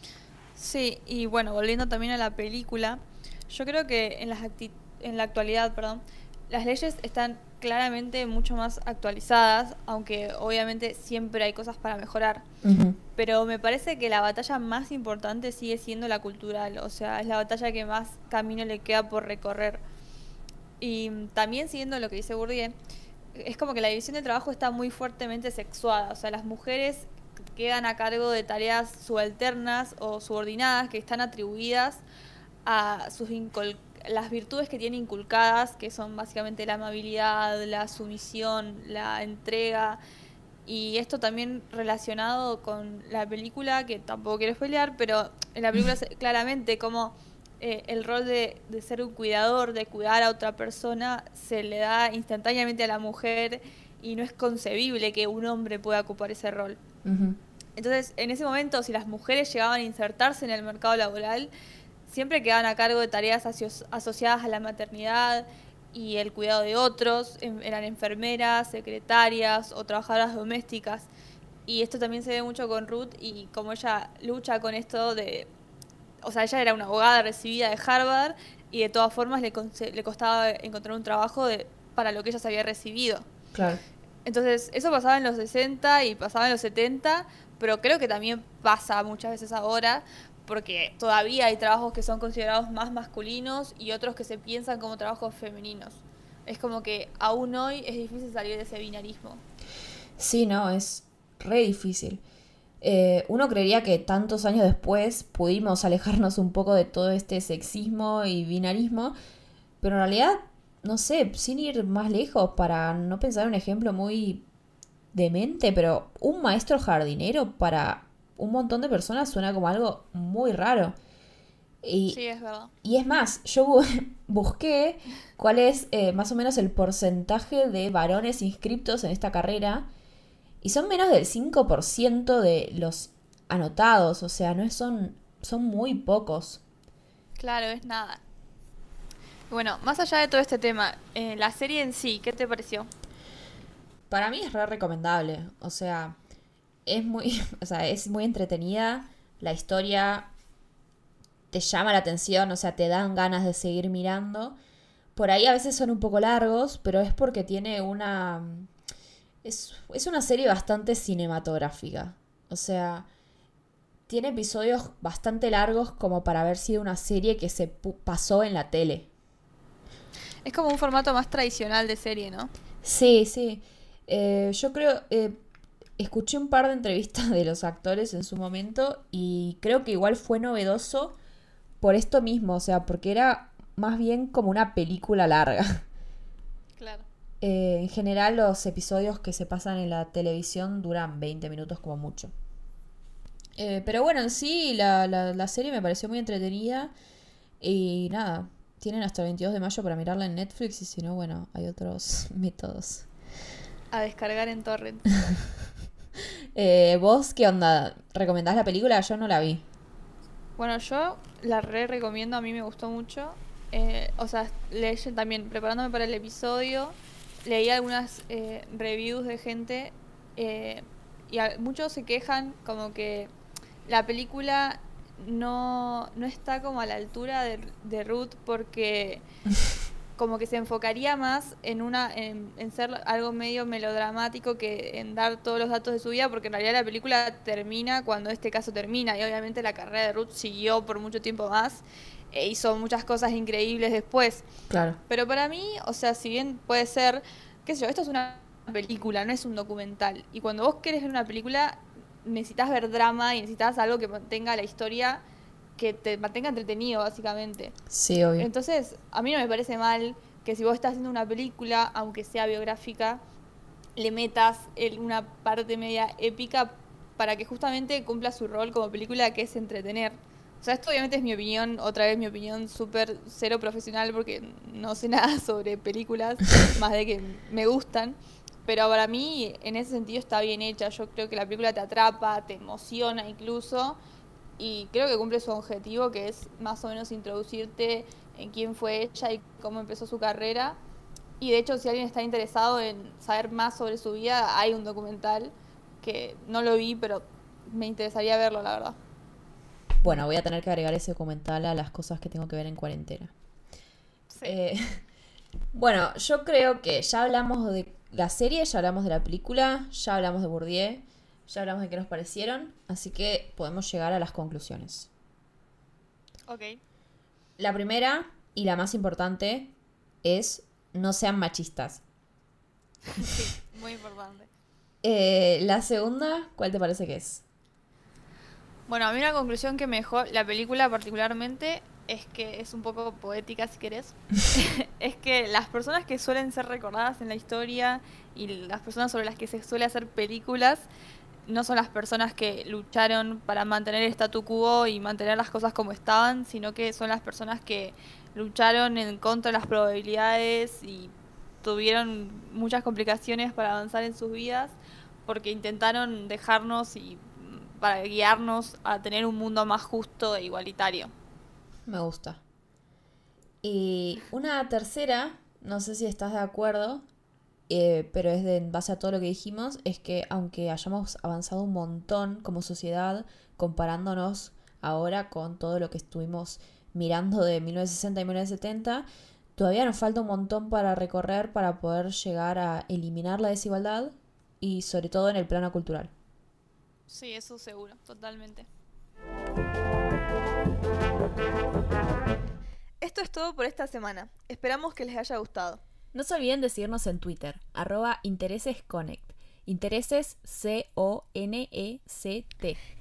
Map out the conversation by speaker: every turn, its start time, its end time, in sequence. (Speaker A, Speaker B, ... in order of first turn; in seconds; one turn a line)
Speaker A: 0.6-12.4
Speaker B: 12.6-13.0
Speaker A: 13.2-19.8
Speaker A: 20.8-22.8
Speaker A: 23.4-32.0
Speaker A: 32.6-40.0
Speaker A: 40.7-56.8
Speaker B: 57.0-57.4
Speaker A: 57.8-61.5
Speaker A: 62.1-71.1
Speaker A: 71.7-75.5
Speaker A: 76.2-83.2
Speaker B: 83.5-83.8
Speaker A: 84.2-99.4
Speaker B: 100.2-102.2
Speaker B: 102.8-109.1
Speaker B: 109.8-114.5
Speaker B: 115.1-121.0
Speaker B: 121.8-122.2
Speaker A: 122.1-122.7
Speaker B: 122.8-129.9
Speaker B: 130.6-136.6
Speaker A: 137.4-138.2
Speaker A: 139.5-142.9
Speaker B: 144.1-146.2
Speaker B: 146.9-150.3
Speaker B: 151.5-154.6
Speaker B: 155.2-158.7
Speaker B: 159.4-163.1
Speaker B: 164.1-169.1
Speaker A: 170.4-172.5
Speaker B: 172.8-175.4
Speaker B: 176.0-181.2
Speaker B: 181.8-185.8
Speaker A: 186.8-187.1
Speaker B: 187.4-192.3
Speaker B: 193.6-196.9
Speaker B: 197.6-203.1
Speaker A: 203.9-205.1
Speaker B: 206.6-209.6
Speaker A: 210.6-223.3
Speaker A: 223.9-229.2
Speaker A: 230.2-244.4
Speaker B: 244.7-245.0
Speaker A: 245.1-255.2
Speaker A: 255.8-257.7
Speaker B: 257.9-258.5
Speaker A: 258.4-263.2
Speaker A: 264.0-284.0
Speaker A: 284.6-290.8
Speaker A: 291.4-299.0
Speaker B: 300.0-303.3
Speaker A: 304.3-304.6
Speaker B: 304.4-305.0
Speaker B: 305.7-315.1
Speaker A: 316.5-316.8
Speaker B: 317.6-319.7
Speaker B: 320.2-322.0
Speaker A: 323.1-324.5
Speaker B: 325.0-327.4
Speaker A: 328.9-340.9
Speaker A: 341.5-361.1
Speaker B: 361.9-362.4
Speaker B: 363.6-367.0
Speaker B: 367.7-386.1
Speaker A: 387.1-388.7
Speaker A: 393.0-395.8
Speaker B: 396.1-402.8